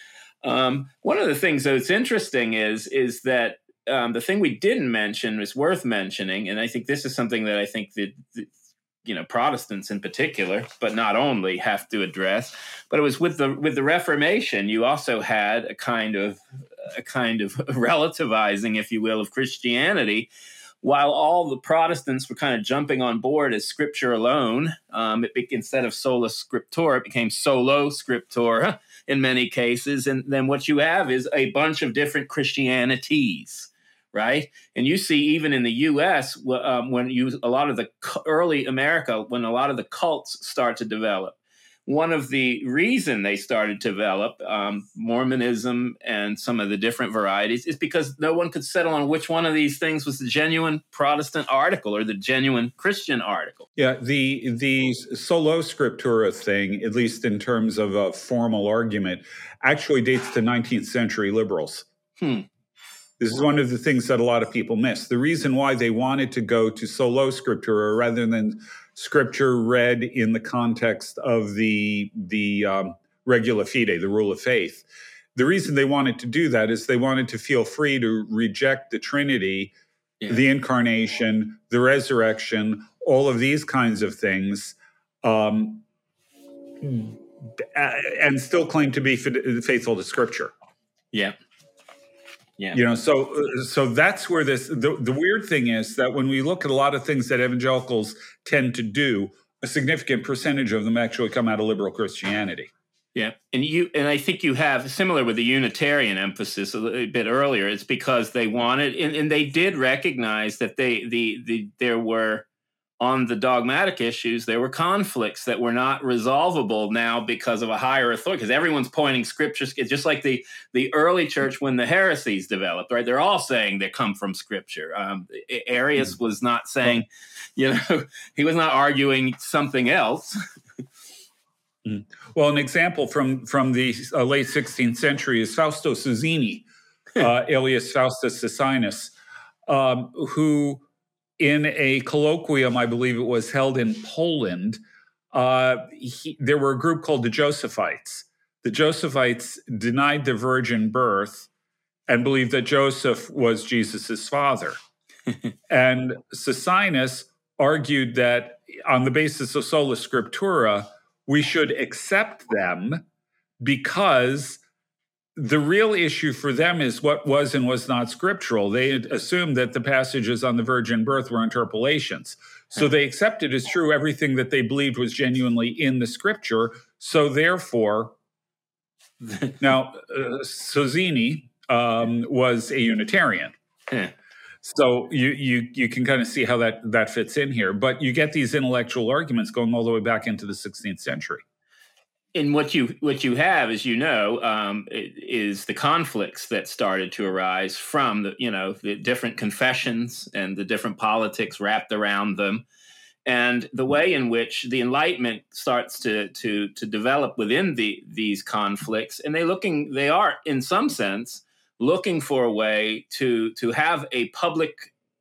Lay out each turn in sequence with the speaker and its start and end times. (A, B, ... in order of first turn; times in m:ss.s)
0:00.4-0:08.5 A
0:09.0-0:20.3 A
0:20.8-0:53.6 A
0:53.8-1:01.8 B
1:02.2-1:02.4 A
1:03.2-1:19.7 B
1:20.3-1:25.8 B
1:26.8-1:30.5 B
1:32.7-1:42.7 B
1:43.1-1:52.4 A
1:53.0-2:10.4 A
2:11.8-2:16.6 B
2:17.2-2:19.1 B
2:19.7-2:20.8 B
2:21.4-2:24.8 B
2:25.3-2:31.5 B
2:32.1-2:34.8 B
2:35.7-2:43.0 B
2:43.6-2:44.6 B
2:45.4-2:58.2 B
2:59.2-2:59.6 A
2:59.6-3:03.5 B
3:04.6-3:11.4 B
3:12.3-3:22.6 A
3:23.2-3:34.9 A